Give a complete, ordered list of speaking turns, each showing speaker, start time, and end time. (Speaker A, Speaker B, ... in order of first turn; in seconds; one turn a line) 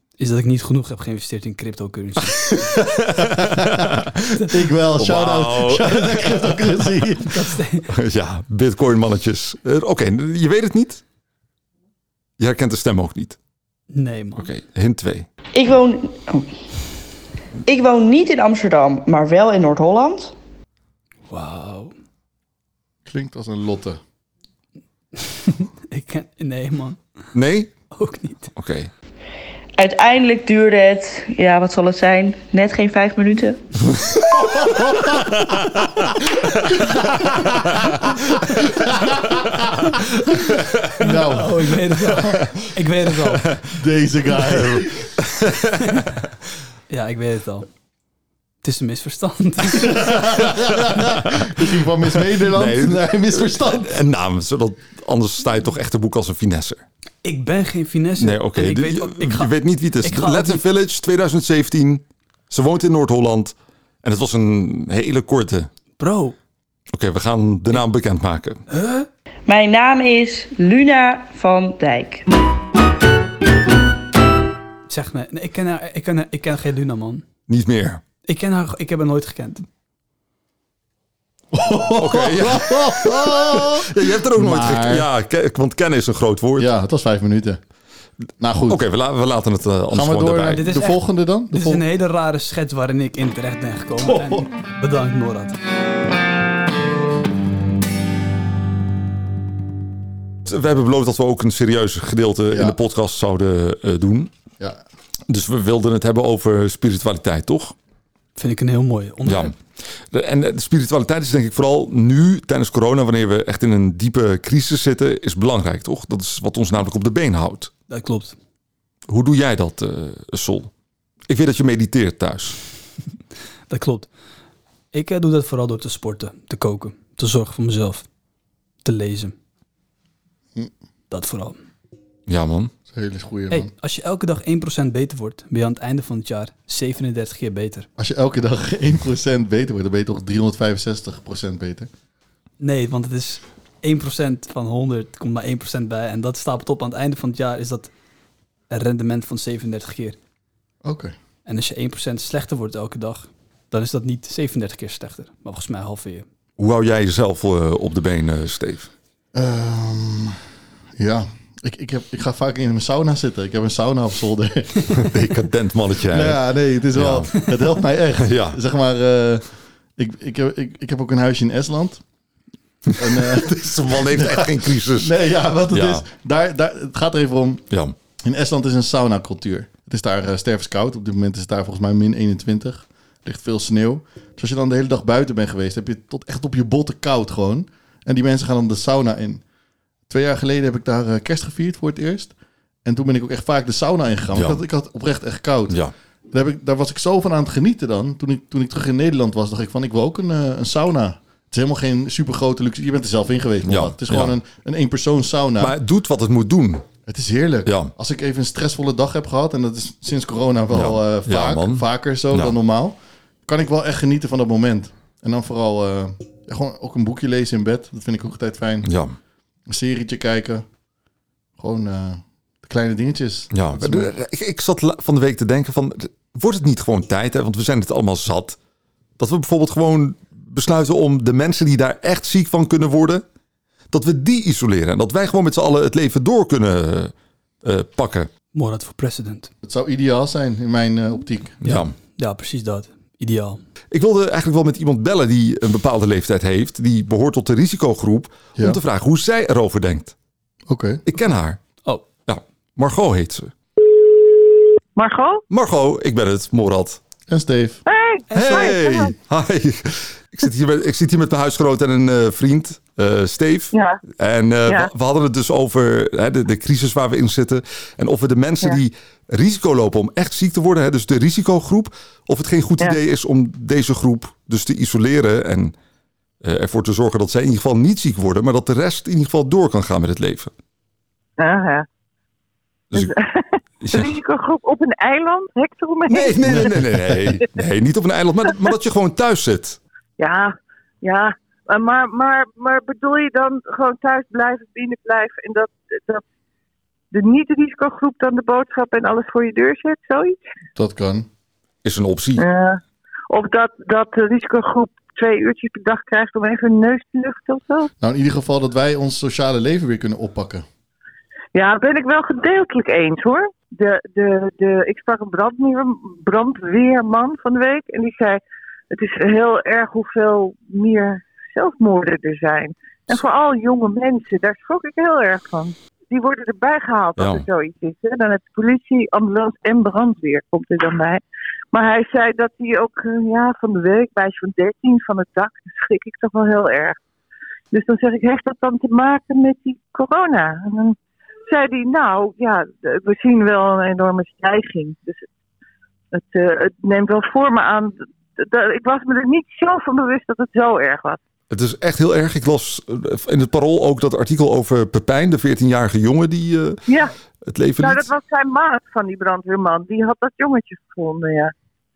Speaker A: 0.2-2.5
Speaker B: 2.3-6.7
Speaker C: 3.2-7.6
Speaker A: 7.2-7.9
Speaker B: 7.9-11.0
Speaker B: 12.4-13.4
Speaker A: 13.9-14.5
Speaker B: 14.4-15.3
Speaker D: 15.6-16.5
Speaker D: 17.7-20.3
Speaker A: 21.3-21.9
Speaker C: 23.1-24.0
Speaker A: 25.2-27.0
Speaker B: 27.3-27.7
Speaker A: 27.9-28.5
Speaker B: 28.6-28.9
Speaker D: 29.8-33.6
Speaker B: 33.9-36.9
Speaker B: 37.7-38.1
Speaker C: 38.8-39.5
Speaker B: 39.6-41.2
Speaker C: 41.0-42.4
Speaker A: 41.0-43.5
Speaker C: 43.7-45.1
Speaker B: 44.4-46.2
Speaker A: 46.9-47.7
Speaker A: 48.6-50.1
Speaker C: 49.7-54.0
Speaker B: 50.8-56.9
Speaker A: 57.2-60.6
Speaker B: 58.2-65.7
Speaker A: 66.0-66.3
Speaker B: 66.9-68.6
Speaker A: 68.7-69.1
Speaker D: 69.5-72.3
Speaker A: 74.9-77.2
Speaker B: 77.5-78.0
Speaker A: 78.3-79.7
Speaker C: 81.5-85.1
Speaker B: 81.9-86.7
Speaker C: 86.6-87.6
Speaker C: 88.4-88.8
Speaker B: 88.7-90.6
Speaker C: 89.9-91.8
Speaker A: 90.5-95.6
Speaker B: 100.5-104.3
Speaker C: 102.5-102.8
Speaker B: 105.3-107.8
Speaker A: 108.4-109.5
Speaker B: 109.3-117.7
Speaker A: 117.9-118.4
Speaker B: 119.1-120.7
Speaker B: 121.3-122.6
Speaker A: 123.7-124.1
Speaker A: 124.9-128.1
Speaker A: 128.8-129.3
Speaker A: 131.1-131.6
Speaker B: 132.3-132.7
Speaker C: 132.9-133.7
Speaker A: 133.5-137.9
Speaker C: 138.0-141.9
Speaker A: 142.6-147.9
Speaker A: 148.7-150.2
Speaker C: 150.8-151.1
Speaker A: 151.5-156.3
Speaker B: 156.6-158.9
Speaker C: 159.3-160.4
Speaker C: 161.0-165.0
Speaker B: 164.9-166.4
Speaker C: 166.1-169.4
Speaker B: 166.9-167.4
Speaker B: 168.2-168.6
Speaker C: 170.0-172.0
Speaker B: 172.9-175.2
Speaker C: 173.0-177.6
Speaker B: 175.7-176.0
Speaker C: 178.2-189.4
Speaker C: 190.1-192.3
Speaker C: 192.8-195.8
Speaker B: 194.3-194.6
Speaker C: 196.3-205.8
Speaker B: 203.7-204.3
Speaker B: 205.6-206.9
Speaker C: 207.1-218.9
Speaker B: 207.7-207.9
Speaker B: 210.7-212.6
Speaker B: 218.8-219.2
Speaker C: 219.7-220.7
Speaker C: 221.6-224.1
Speaker B: 223.5-228.6
Speaker B: 229.2-233.2
Speaker B: 233.9-238.3
Speaker A: 238.5-239.5
Speaker C: 239.6-241.6
Speaker B: 241.6-241.9
Speaker A: 241.6-243.6
Speaker B: 243.9-250.2
Speaker C: 250.7-251.0
Speaker B: 251.1-251.6
Speaker B: 252.3-253.5
Speaker E: 255.0-255.4
Speaker B: 255.5-257.0
Speaker C: 257.3-257.8
Speaker E: 257.9-259.1
Speaker A: 258.3-258.8
Speaker B: 258.3-275.7
Speaker E: 263.7-264.0
Speaker B: 276.4-280.5
Speaker E: 281.4-281.9
Speaker E: 282.9-287.1
Speaker B: 283.8-284.2
Speaker B: 286.1-289.8
Speaker E: 290.2-296.2
Speaker E: 297.1-300.4
Speaker C: 300.8-301.3
Speaker B: 301.8-302.5
Speaker E: 302.4-307.9
Speaker C: 308.0-310.6
Speaker E: 311.5-331.2
Speaker B: 327.2-327.4
Speaker E: 331.7-337.0
Speaker E: 337.7-345.2
Speaker E: 346.1-351.2
Speaker B: 351.5-356.8
Speaker E: 356.9-357.1
Speaker B: 357.4-358.1
Speaker E: 357.8-361.5